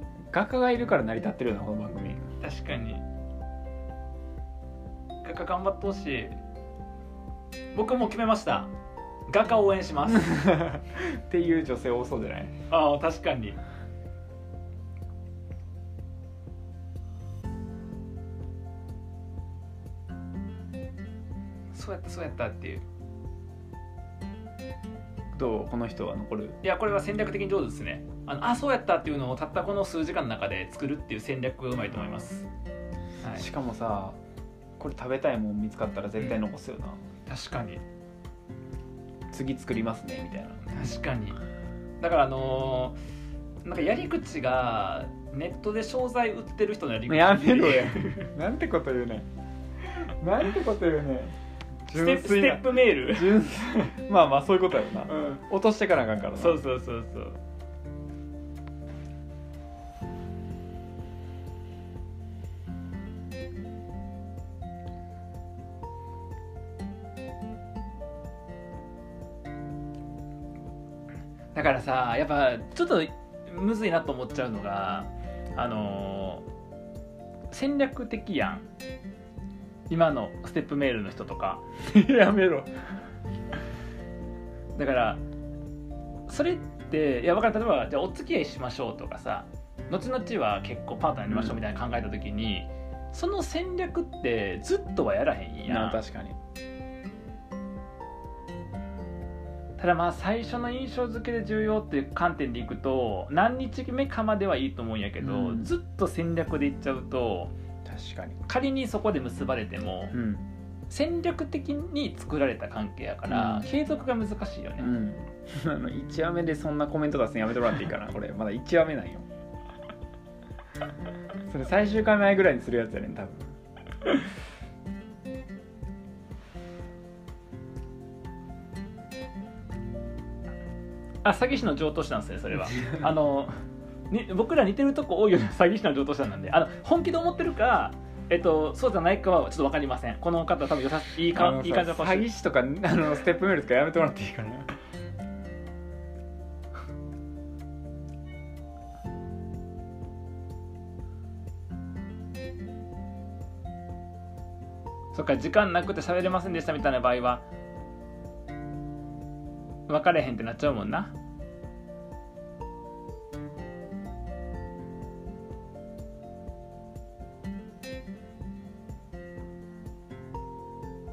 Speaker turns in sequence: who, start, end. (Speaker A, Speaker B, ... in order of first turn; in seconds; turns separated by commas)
Speaker A: 0.3-2.2, Speaker B: 2.4-3.0, Speaker B: 5.2-6.3, Speaker B: 7.7-8.7, Speaker B: 9.3-10.4, Speaker A: 10.1-12.5, Speaker B: 12.7-13.6, Speaker B: 21.7-22.8, Speaker A: 25.3-26.6, Speaker B: 26.6-32.5, Speaker A: 33.4-34.2, Speaker A: 34.8-37.0, Speaker B: 37.3-37.8, Speaker A: 39.3-40.6, Speaker B: 40.7-41.4, Speaker B: 42.0-43.0, Speaker B: 43.6-48.3, Speaker A: 47.1-49.3, Speaker A: 49.8-51.3, Speaker A: 51.9-56.6, Speaker B: 51.9-53.8, Speaker B: 55.1-55.4, Speaker B: 56.4-57.4, Speaker B: 71.5-76.5, Speaker B: 77.5-78.7, Speaker B: 79.9-81.6, Speaker A: 81.8-82.7, Speaker B: 84.7-85.2, Speaker B: 86.3-96.0, Speaker A: 91.3-91.6, Speaker A: 95.7-96.4, Speaker B: 99.8-107.5, Speaker A: 105.2-105.7, Speaker A: 107.8-108.4, Speaker B: 108.5-110.2, Speaker A: 110.1-110.4, Speaker B: 110.9-114.9, Speaker A: 113.3-113.7, Speaker A: 114.8-119.2, Speaker A: 121.5-123.5, Speaker B: 131.2-133.6, Speaker B: 134.1-142.3, Speaker A: 141.3-144.7, Speaker B: 155.1-157.4, Speaker B: 159.9-161.1